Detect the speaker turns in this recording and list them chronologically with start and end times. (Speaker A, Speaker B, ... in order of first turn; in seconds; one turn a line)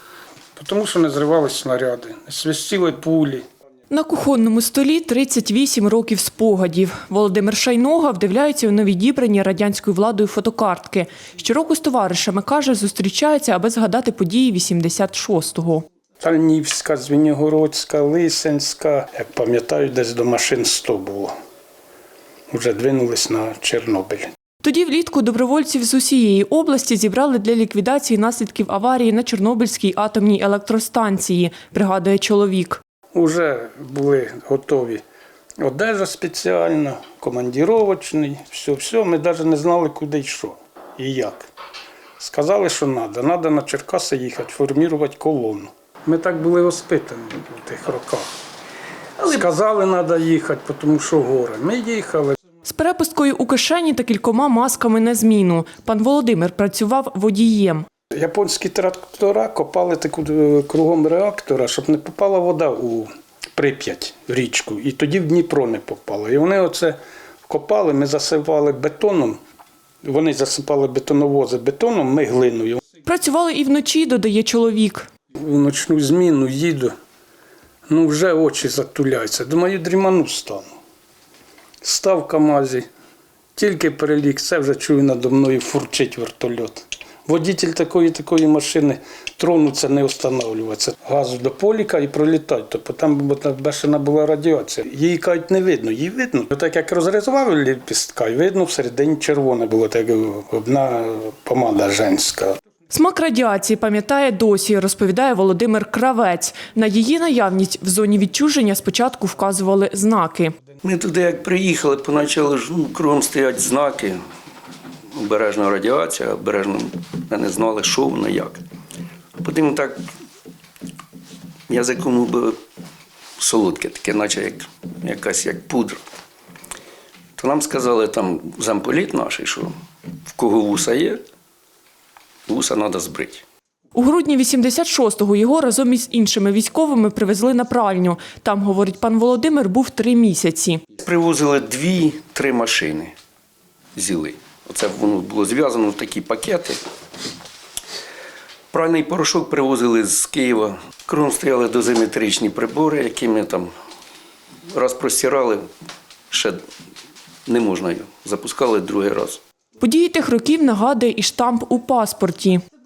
Speaker A: 0.6-3.4
Speaker B: 3.9-15.8
Speaker A: 16.2-21.3
Speaker A: 22.5-24.3
Speaker B: 24.6-32.8
Speaker A: 33.1-35.0
Speaker A: 35.6-41.5
Speaker A: 42.2-48.3
Speaker A: 49.2-52.4
Speaker B: 52.7-57.9
Speaker A: 58.1-69.4
Speaker A: 70.0-72.8
Speaker B: 73.0-75.1
Speaker A: 75.4-76.9
Speaker A: 77.9-80.7
Speaker A: 81.8-82.9
Speaker A: 83.6-102.6
Speaker B: 102.9-110.5
Speaker C: 110.8-114.2
Speaker C: 115.1-118.6
Speaker C: 119.4-120.1
Speaker C: 121.7-122.6
Speaker C: 123.4-126.0
Speaker C: 127.4-129.7
Speaker C: 130.3-131.2
Speaker C: 132.5-133.4
Speaker B: 133.9-140.8
Speaker C: 141.0-143.1
Speaker C: 143.9-146.8
Speaker C: 148.7-153.7
Speaker C: 154.7-155.7
Speaker C: 156.3-156.6
Speaker C: 157.5-159.4
Speaker B: 159.8-162.6